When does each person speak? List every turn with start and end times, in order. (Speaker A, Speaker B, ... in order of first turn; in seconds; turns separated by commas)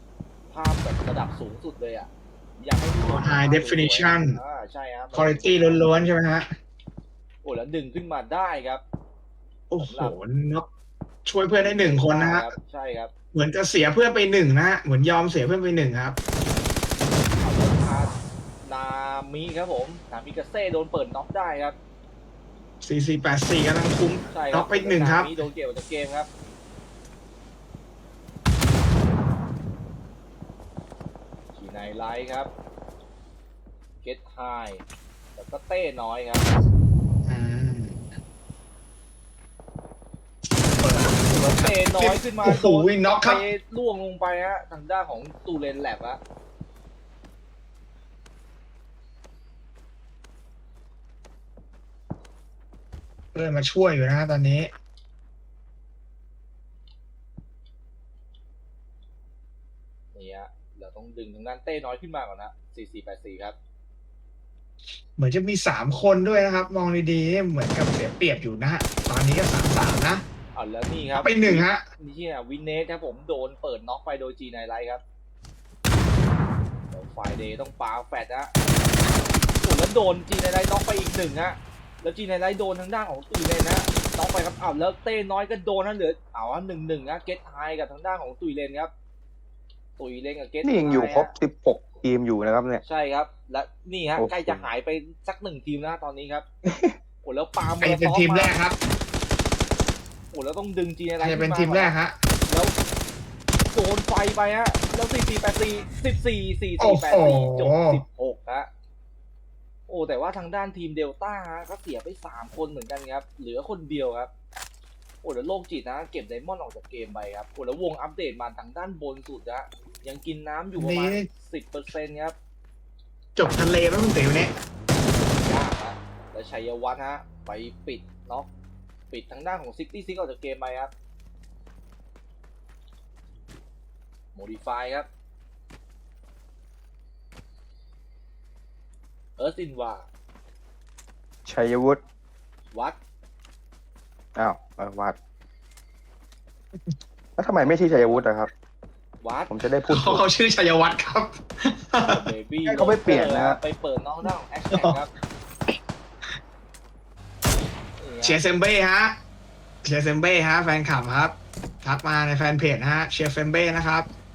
Speaker A: 0.5-5.8, Speaker B: 3.0-4.4, Speaker B: 5.1-6.5, Speaker A: 7.4-8.8, Speaker B: 9.7-10.7, Speaker A: 9.8-10.1, Speaker B: 11.2-12.5, Speaker A: 11.6-13.1, Speaker B: 13.3-16.2, Speaker A: 17.4-18.1, Speaker A: 18.6-21.8, Speaker B: 22.8-25.4, Speaker A: 24.3-26.3, Speaker A: 31.6-32.5, Speaker A: 34.0-34.9, Speaker A: 35.4-36.5, Speaker B: 37.2-38.0, Speaker B: 40.7-43.4, Speaker A: 41.3-46.2, Speaker B: 53.4-54.7, Speaker A: 60.1-63.6, Speaker B: 65.2-70.2, Speaker A: 70.5-75.0, Speaker B: 71.1-71.8, Speaker A: 76.9-78.5, Speaker A: 79.6-88.9, Speaker A: 90.0-91.3, Speaker C: 90.6-92.8, Speaker A: 92.8-96.5, Speaker C: 94.2-94.7, Speaker C: 96.7-97.0, Speaker A: 97.2-98.5, Speaker B: 97.8-98.8, Speaker A: 100.3-101.9, Speaker B: 101.2-102.2, Speaker A: 102.5-102.8, Speaker A: 103.7-108.7, Speaker B: 106.8-108.0, Speaker A: 109.9-114.3, Speaker A: 115.2-122.3, Speaker B: 120.8-121.3, Speaker B: 123.4-124.5, Speaker A: 125.3-128.5, Speaker A: 129.1-130.9, Speaker A: 134.3-135.1, Speaker A: 139.4-140.1, Speaker C: 141.5-142.0, Speaker A: 142.7-143.0, Speaker C: 144.4-145.2, Speaker C: 147.4-148.5, Speaker A: 147.9-148.2, Speaker A: 149.2-149.5, Speaker C: 149.5-150.2, Speaker B: 149.9-152.3, Speaker A: 152.1-155.1, Speaker C: 152.7-153.6, Speaker B: 154.7-155.0, Speaker A: 158.0-158.4, Speaker B: 158.2-159.2, Speaker B: 159.8-164.1